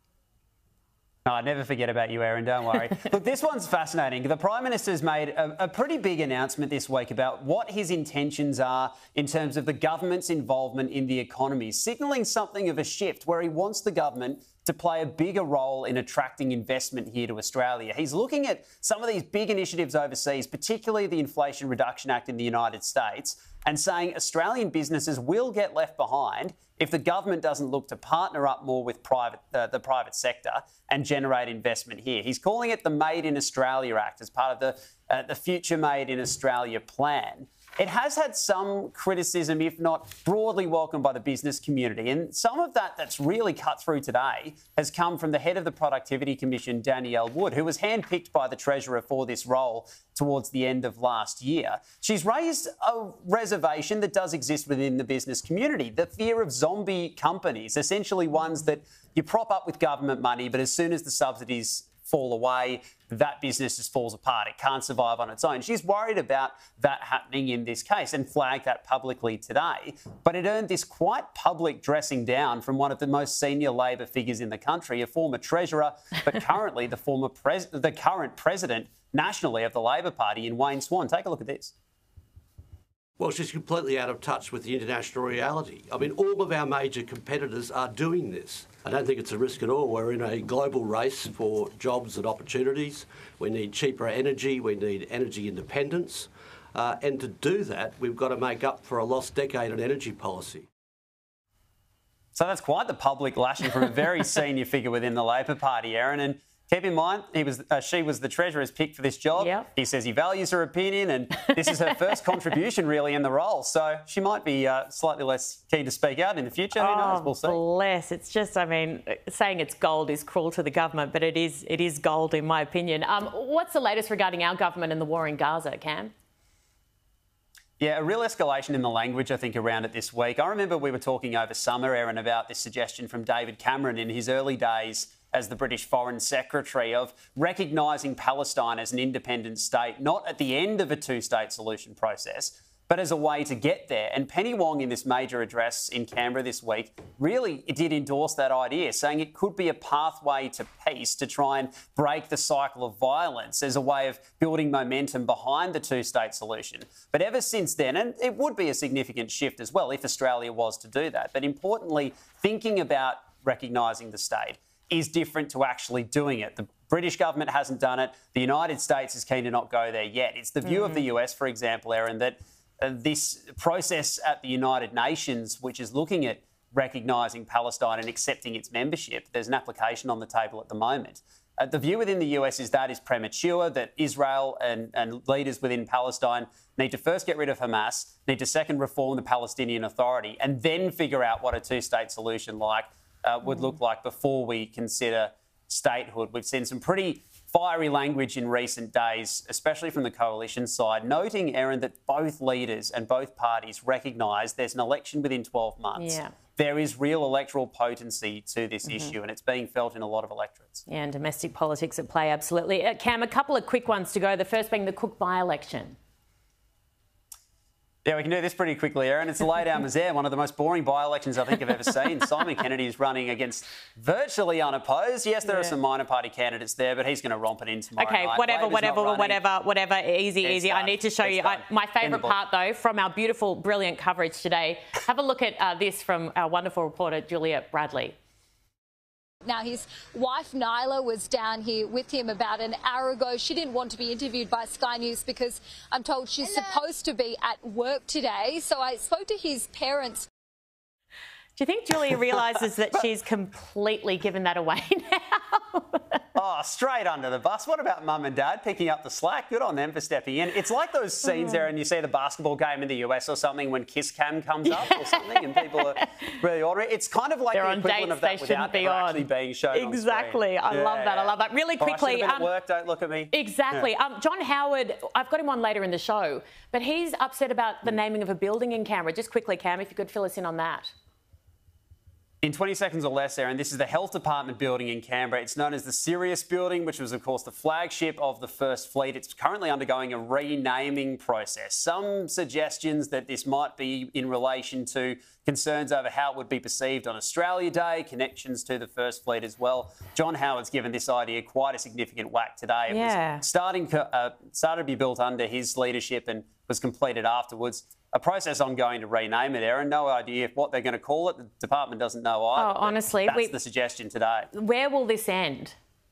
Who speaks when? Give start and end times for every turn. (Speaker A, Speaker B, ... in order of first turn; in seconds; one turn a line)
Speaker A: 1.2-81.7
Speaker B: 83.2-100.7
Speaker A: 102.3-117.6
Speaker C: 109.4-109.7
Speaker C: 116.8-126.1
Speaker A: 127.8-210.8
Speaker C: 206.0-206.3
Speaker C: 210.9-216.0
Speaker A: 218.1-229.4
Speaker C: 228.0-238.2
Speaker A: 230.4-232.4
Speaker D: 239.4-250.3
Speaker C: 251.6-256.2
Speaker A: 256.4-273.9
Speaker C: 264.7-265.9
Speaker C: 267.5-272.5
Speaker C: 273.3-280.9
Speaker A: 282.4-314.5
Speaker C: 302.9-303.4
Speaker C: 312.6-313.5
Speaker C: 314.5-315.8